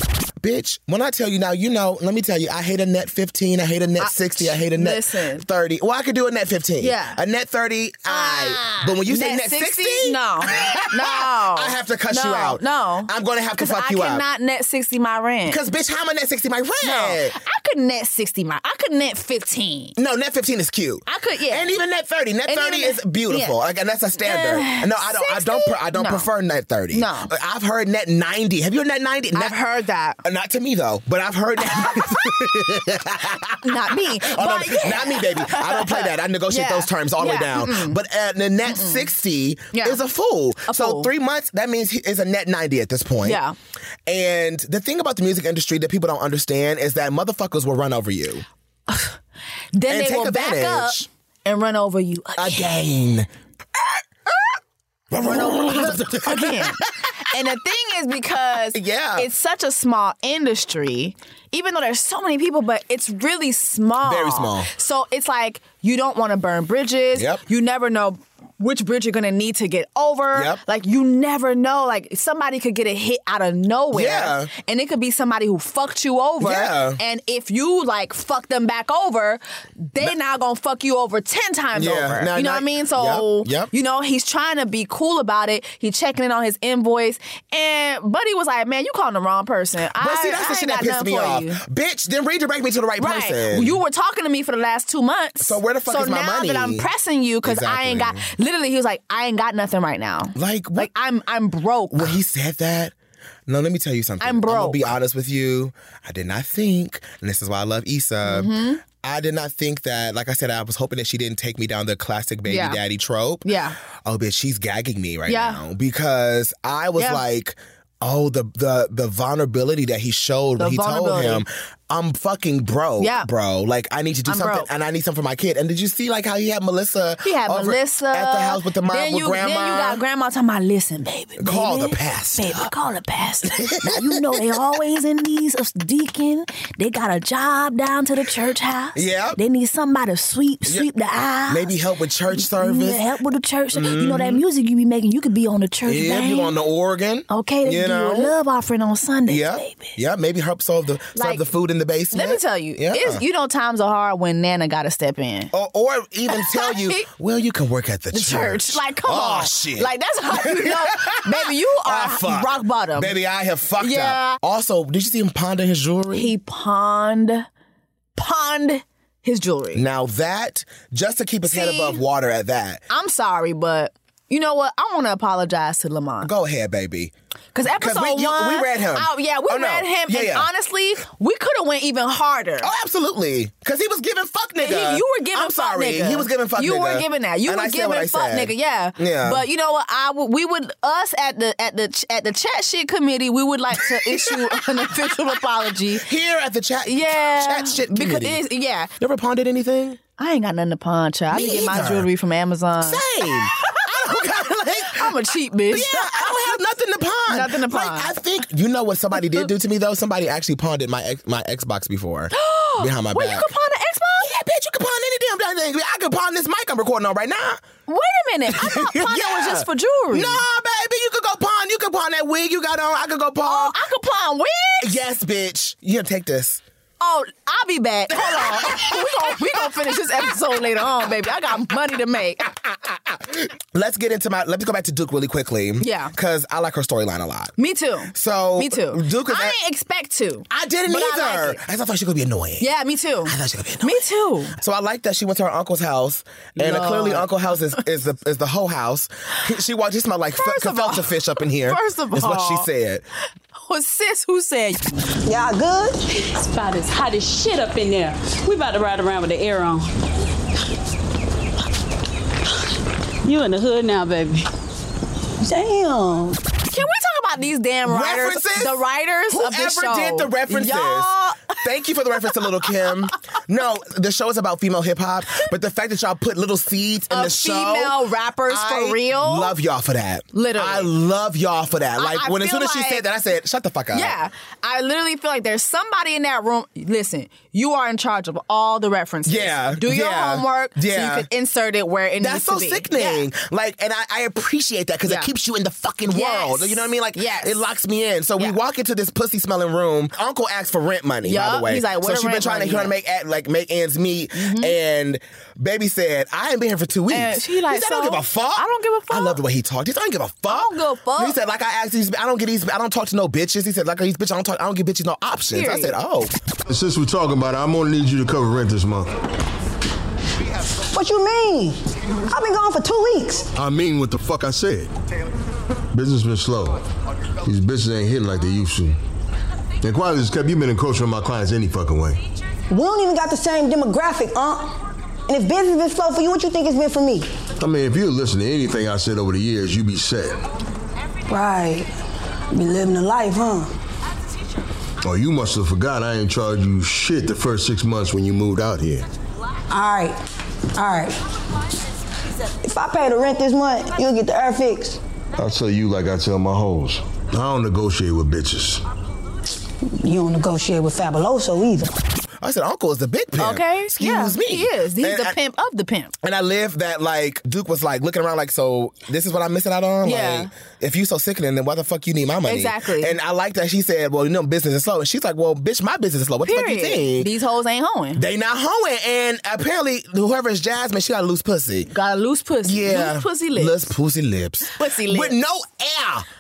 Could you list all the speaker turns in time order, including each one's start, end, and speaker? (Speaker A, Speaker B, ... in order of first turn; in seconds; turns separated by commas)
Speaker A: 0.4-14.3, Speaker B: 4.0-5.5, Speaker B: 6.8-7.2, Speaker B: 8.1-15.6, Speaker A: 15.5-17.4, Speaker B: 16.8-19.9, Speaker A: 20.0-29.6, Speaker B: 21.1-21.8, Speaker B: 22.5-23.6, Speaker B: 24.2-26.3, Speaker B: 26.9-27.3, Speaker B: 29.3-30.2, Speaker A: 30.2-43.4, Speaker B: 31.6-32.5, Speaker B: 33.6-38.0, Speaker B: 38.6-39.1, Speaker B: 39.7-40.0, Speaker B: 40.7-41.1, Speaker B: 43.2-43.5, Speaker A: 44.1-48.5, Speaker B: 48.9-49.2, Speaker B: 49.7-52.8, Speaker A: 49.9-51.1, Speaker A: 52.4-53.3, Speaker A: 55.1-57.1, Speaker B: 55.2-91.6, Speaker A: 58.7-59.3, Speaker A: 64.0-64.7, Speaker A: 67.2-67.4, Speaker A: 70.3-70.6, Speaker A: 73.9-74.5, Speaker A: 76.4-77.0, Speaker A: 81.8-83.7, Speaker A: 90.0-93.8, Speaker B: 93.0-102.2, Speaker A: 95.4-96.9, Speaker A: 97.4-98.3, Speaker A: 100.3-100.9, Speaker A: 101.9-102.9, Speaker A: 103.5-113.5, Speaker B: 104.2-104.9, Speaker B: 108.2-108.8, Speaker B: 112.5-112.8, Speaker B: 113.4-113.8, Speaker A: 114.0-130.0, Speaker B: 115.3-115.6, Speaker B: 117.0-117.2, Speaker B: 120.6-121.4, Speaker B: 123.0-123.3, Speaker B: 124.3-124.7, Speaker B: 127.2-141.7, Speaker A: 131.4-132.7, Speaker A: 133.5-134.5, Speaker A: 138.9-139.4, Speaker A: 141.5-143.0, Speaker B: 142.3-146.5, Speaker A: 143.7-144.4, Speaker A: 145.8-148.3, Speaker B: 147.3-150.0, Speaker A: 149.3-153.2, Speaker B: 151.2-151.4, Speaker B: 152.1-155.5, Speaker A: 155.5-166.3, Speaker B: 156.3-157.1, Speaker B: 158.1-163.1, Speaker B: 163.8-164.4, Speaker B: 166.1-167.5, Speaker B: 168.2-169.8, Speaker A: 169.7-172.8, Speaker B: 171.5-172.0, Speaker B: 172.9-176.3, Speaker A: 176.2-177.1, Speaker B: 177.5-182.7, Speaker A: 177.7-180.5, Speaker A: 182.6-189.5, Speaker B: 184.6-196.1, Speaker A: 193.8-195.1, Speaker A: 195.9-198.4, Speaker B: 196.8-198.9, Speaker A: 199.0-200.0, Speaker B: 200.2-206.6, Speaker A: 201.3-202.1, Speaker A: 202.8-205.2, Speaker A: 205.7-213.5, Speaker B: 207.3-208.1, Speaker B: 209.2-209.4, Speaker B: 212.3-214.3, Speaker A: 214.2-217.6, Speaker B: 217.9-220.4, Speaker A: 218.5-223.8, Speaker B: 223.4-225.0, Speaker A: 224.8-226.6, Speaker B: 227.0-232.5, Speaker A: 228.1-229.7, Speaker A: 232.9-237.5, Speaker B: 235.8-236.1, Speaker B: 237.6-241.6, Speaker A: 238.1-239.6, Speaker A: 240.5-242.7, Speaker B: 242.6-244.6, Speaker A: 243.2-253.1, Speaker B: 246.6-247.3, Speaker B: 250.3-252.7, Speaker B: 253.6-255.1, Speaker C: 255.2-256.0, Speaker D: 256.2-259.9, Speaker D: 263.2-264.5, Speaker C: 265.4-266.4, Speaker B: 266.7-271.6, Speaker A: 267.9-284.1, Speaker B: 272.2-272.9, Speaker B: 277.1-279.5, Speaker B: 280.3-280.9, Speaker B: 282.0-283.1, Speaker B: 283.9-293.3, Speaker A: 289.3-291.3, Speaker A: 292.2-316.3, Speaker B: 296.1-297.6, Speaker B: 301.2-303.0, Speaker B: 304.3-304.8, Speaker B: 307.1-309.4, Speaker B: 310.5-311.4, Speaker B: 315.5-315.9, Speaker E: 316.7-319.1, Speaker C: 320.9-323.5, Speaker E: 323.6-324.9, Speaker E: 325.9-326.9, Speaker E: 327.4-329.0, Speaker E: 329.8-332.2, Speaker C: 332.7-337.3, Speaker E: 337.6-340.4, Speaker C: 341.3-341.9, Speaker C: 342.5-343.7, Speaker E: 345.0-349.1, Speaker C: 349.7-350.2, Speaker C: 350.7-351.2, Speaker C: 352.6-355.0, Speaker E: 355.4-358.8, Speaker C: 359.9-362.0, Speaker A: 362.4-365.4, Speaker B: 363.4-366.1, Speaker A: 366.2-377.3, Speaker B: 370.0-370.5, Speaker B: 372.5-373.2, Speaker B: 376.4-378.2, Speaker A: 378.2-381.9, Speaker B: 381.9-383.9, Speaker A: 382.6-386.3, Speaker B: 384.7-385.4